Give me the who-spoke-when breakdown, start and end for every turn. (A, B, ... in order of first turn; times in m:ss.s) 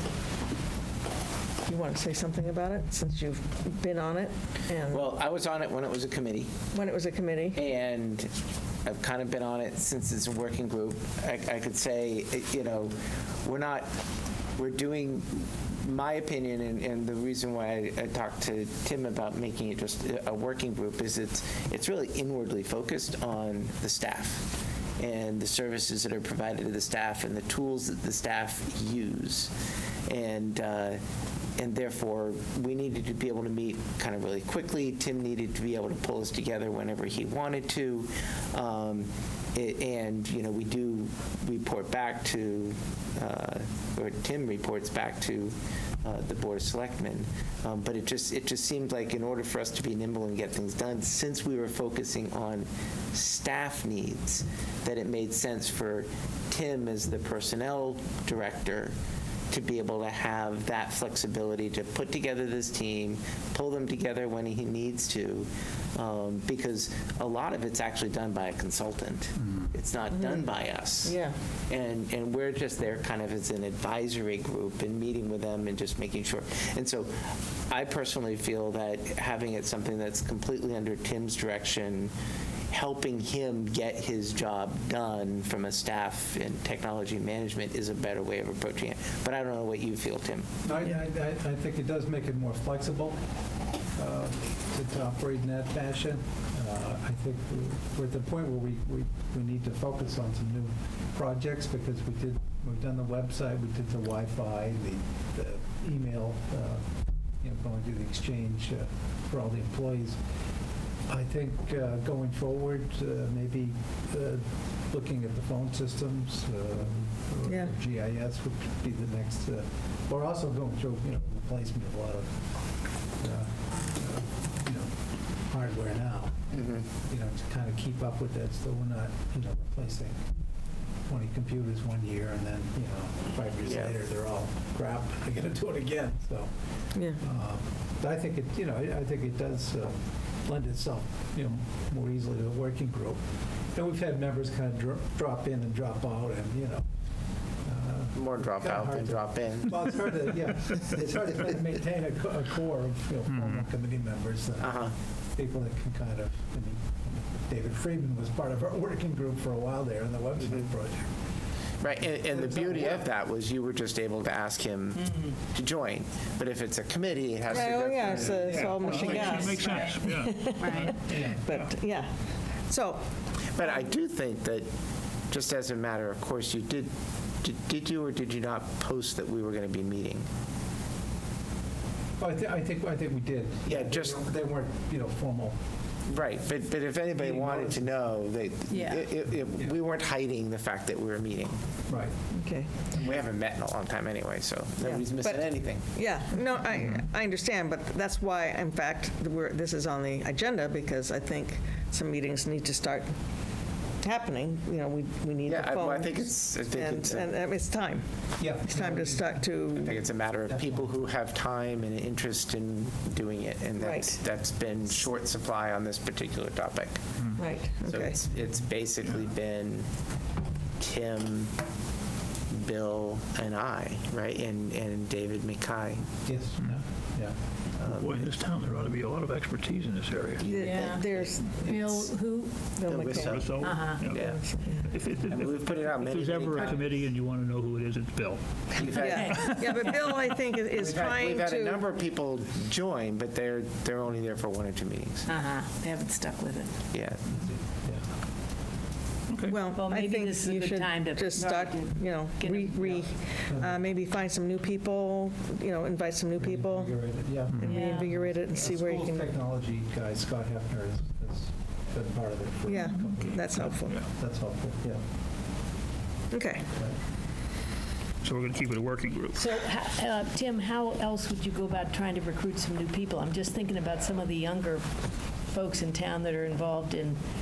0:01.6-0:05.1 A
0:04.9-0:06.6 B
0:06.7-0:07.6 A
0:07.5-0:08.3 B
0:08.8-0:14.0 B
0:14.6-0:29.5 B
0:30.1-0:31.0 B
0:31.6-0:58.9 B
0:59.5-1:22.1 B
1:10.1-1:10.4 A
1:11.0-1:11.3 A
1:22.7-1:30.5 B
1:30.6-1:33.2 C
1:34.0-1:46.8 C
1:47.4-1:50.2 C
1:51.1-2:02.3 C
1:57.4-1:57.7 A
2:03.1-2:10.2 C
2:06.5-2:06.9 B
2:11.1-2:16.5 C
2:13.6-2:14.0 B
2:16.9-2:17.2 A
2:17.2-2:26.8 C
2:27.6-2:41.1 C
2:28.1-2:29.8 B
2:33.3-2:33.6 D
2:34.6-2:34.9 B
2:40.4-2:40.7 B
2:41.8-2:49.3 B
2:42.2-2:43.1 C
2:45.0-2:45.3 E
2:47.5-2:53.0 A
2:48.0-2:49.7 C
2:48.4-2:51.7 D
2:50.6-2:50.9 E
2:51.0-2:51.4 C
2:53.5-2:54.7 B
2:55.3-3:00.3 B
3:02.2-3:05.6 C
3:03.7-3:04.2 B
3:06.1-3:11.6 B
3:07.2-3:07.9 C
3:08.7-3:09.1 E
3:11.9-3:12.1 C
3:12.3-3:12.8 A
3:12.9-3:15.8 B
3:14.8-3:23.1 A
3:24.0-3:30.1 A
3:25.4-3:27.3 B
3:28.4-3:29.6 C
3:29.7-3:37.0 B
3:30.4-3:30.9 C
3:33.8-3:34.2 A
3:37.4-3:38.2 A
3:37.8-3:39.9 B
3:40.8-3:41.5 B
3:42.5-3:46.1 B
3:46.2-3:47.4 C
3:47.8-3:50.4 D
3:47.8-3:48.3 B
3:50.4-3:51.4 B
3:50.4-3:51.8 A
3:50.5-3:52.8 E
3:52.8-3:54.9 A
3:52.9-3:54.4 B
3:53.2-4:00.4 D
3:53.6-3:54.1 E
3:55.3-3:56.8 B
3:56.5-3:56.9 E
3:58.7-3:59.3 B
3:58.9-3:59.9 E
3:58.9-4:01.8 A
4:00.8-4:05.3 B
4:05.3-4:06.8 E
4:06.9-4:07.2 B
4:07.3-4:08.1 C
4:09.3-4:09.6 D
4:09.4-4:16.9 A
4:09.7-4:13.1 E
4:13.5-4:13.8 C
4:16.4-4:25.0 C
4:17.5-4:17.9 D
4:17.6-4:19.3 A
4:17.6-4:18.2 E
4:22.7-4:24.0 A
4:22.8-4:24.1 D
4:26.3-4:26.7 A
4:28.2-4:29.4 D
4:29.3-4:37.2 E